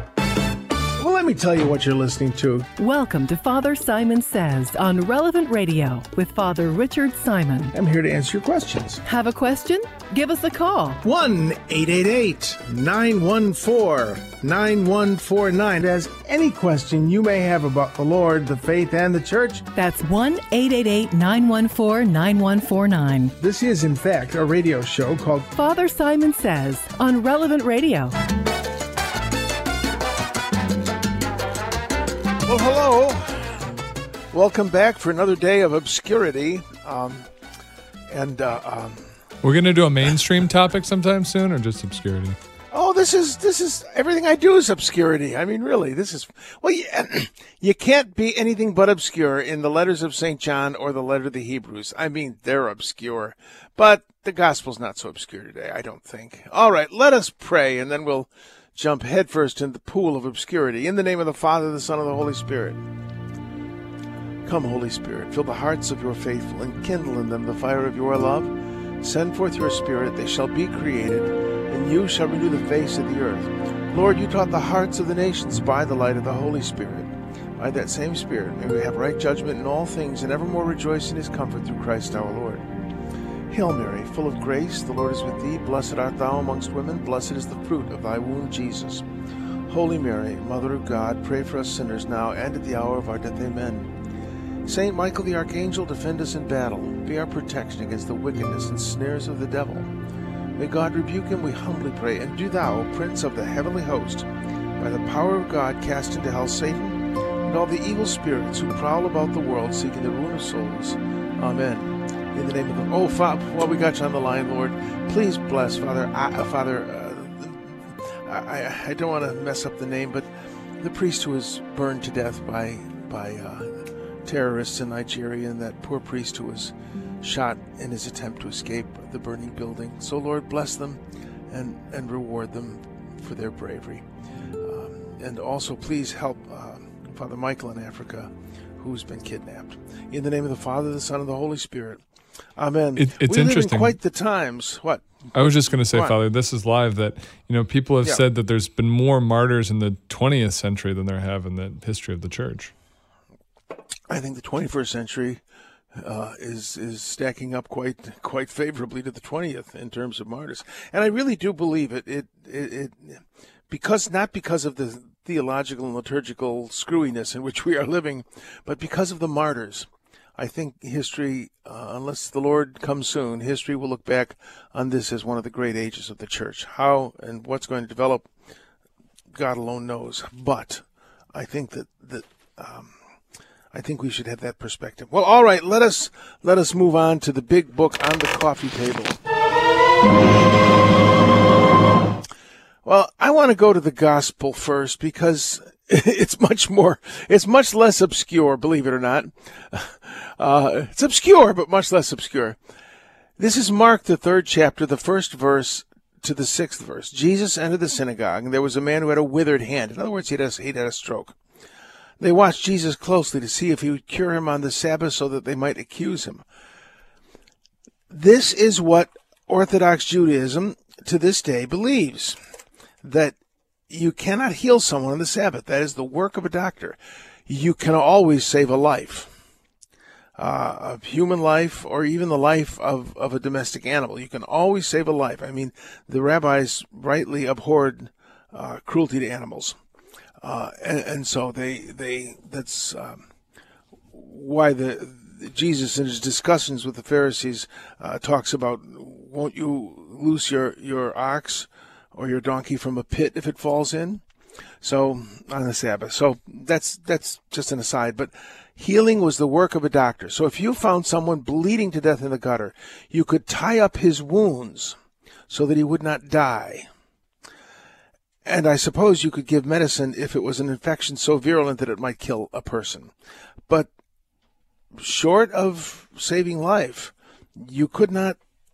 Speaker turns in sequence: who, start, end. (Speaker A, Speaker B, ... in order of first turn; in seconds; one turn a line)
Speaker A: 1.0-2.7
Speaker B: 2.8-7.7
Speaker A: 7.7-9.0
Speaker B: 9.0-11.0
Speaker A: 11.0-19.6
Speaker B: 19.8-23.3
Speaker A: 23.4-25.5
Speaker B: 25.5-28.2
Speaker A: 32.5-33.5
Speaker A: 34.3-37.3
Speaker A: 38.1-39.1
Speaker C: 39.4-42.4
Speaker A: 42.7-62.8
Speaker A: 64.5-82.6
Speaker A: 83.5-89.0
Speaker A: 89.7-93.9
Speaker A: 94.7-99.9
Speaker A: 100.6-104.3
Speaker A: 104.8-120.3
Speaker A: 120.8-134.1
Speaker A: 134.6-142.0
Speaker A: 142.6-146.2
Speaker C: 143.0-144.0
Speaker C: 145.3-152.7
Speaker A: 154.1-155.4
Speaker A: 155.9-178.3
Speaker A: 179.3-182.9
Speaker A: 183.7-189.2
Speaker A: 192.8-202.6
Speaker A: 203.4-211.4
Speaker A: 212.2-216.4
Speaker A: 218.1-222.4
Speaker A: 223.0-223.4
Speaker A: 223.9-227.0
Speaker A: 227.5-229.3
Speaker A: 230.4-239.8
Speaker A: 240.4-243.2
Speaker A: 244.1-254.2
Speaker A: 254.8-264.9
Speaker A: 265.5-266.9
Speaker A: 268.4-273.1
Speaker A: 275.0-278.4